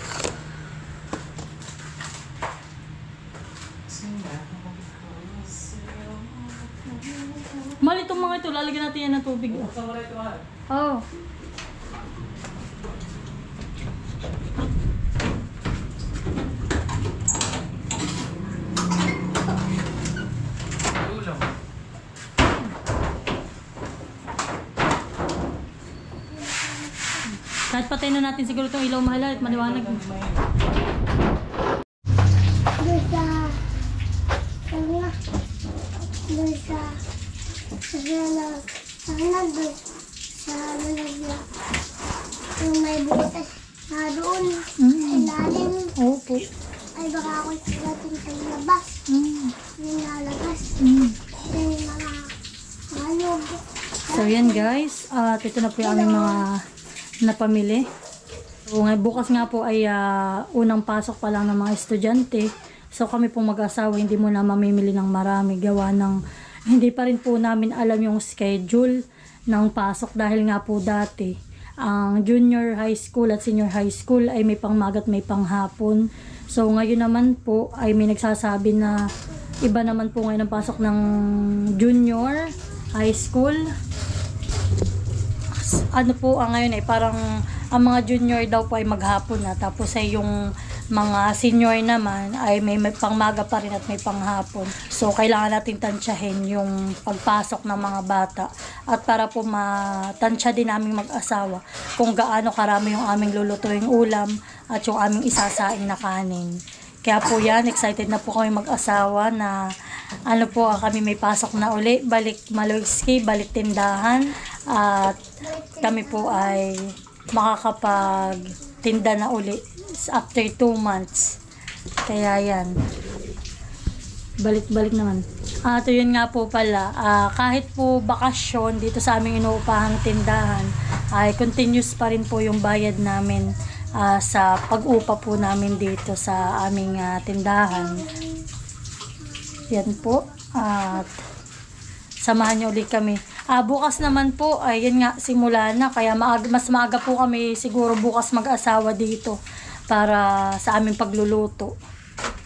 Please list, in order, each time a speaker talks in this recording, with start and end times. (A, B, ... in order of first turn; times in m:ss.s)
0:03.9-0:07.8 A
0:07.8-0:09.7 B
0:09.5-0:10.4 A
0:10.7-0:11.0 B
0:21.0-0:21.5 A
0:26.4-0:27.0 C
0:27.7-0:30.0 B
0:29.4-0:30.4 A
0:32.8-0:33.6 C
0:34.7-0:35.1 C
0:36.3-0:37.0 C
0:37.9-0:39.8 C
0:40.4-0:41.4 C
0:42.6-0:45.9 C
0:44.8-0:45.3 B
0:46.0-0:46.5 B
0:47.0-0:48.9 C
0:49.1-0:49.6 B
0:49.8-0:50.8 C
0:50.8-0:51.2 B
0:51.5-0:52.3 C
0:52.9-0:54.7 C
0:54.1-0:56.6 B
0:55.8-0:56.4 C
0:57.2-0:57.8 B
0:58.7-1:19.1 B
1:19.6-1:23.7 B
1:25.6-1:27.2 B
1:27.7-1:30.4 B
1:30.9-1:49.6 B
1:50.3-1:55.2 B
1:55.4-1:56.6 C
1:55.8-2:01.4 B
2:02.1-2:02.8 B
2:04.4-2:18.1 B
2:19.7-2:21.1 B
2:22.2-2:29.4 B
2:29.9-2:31.7 B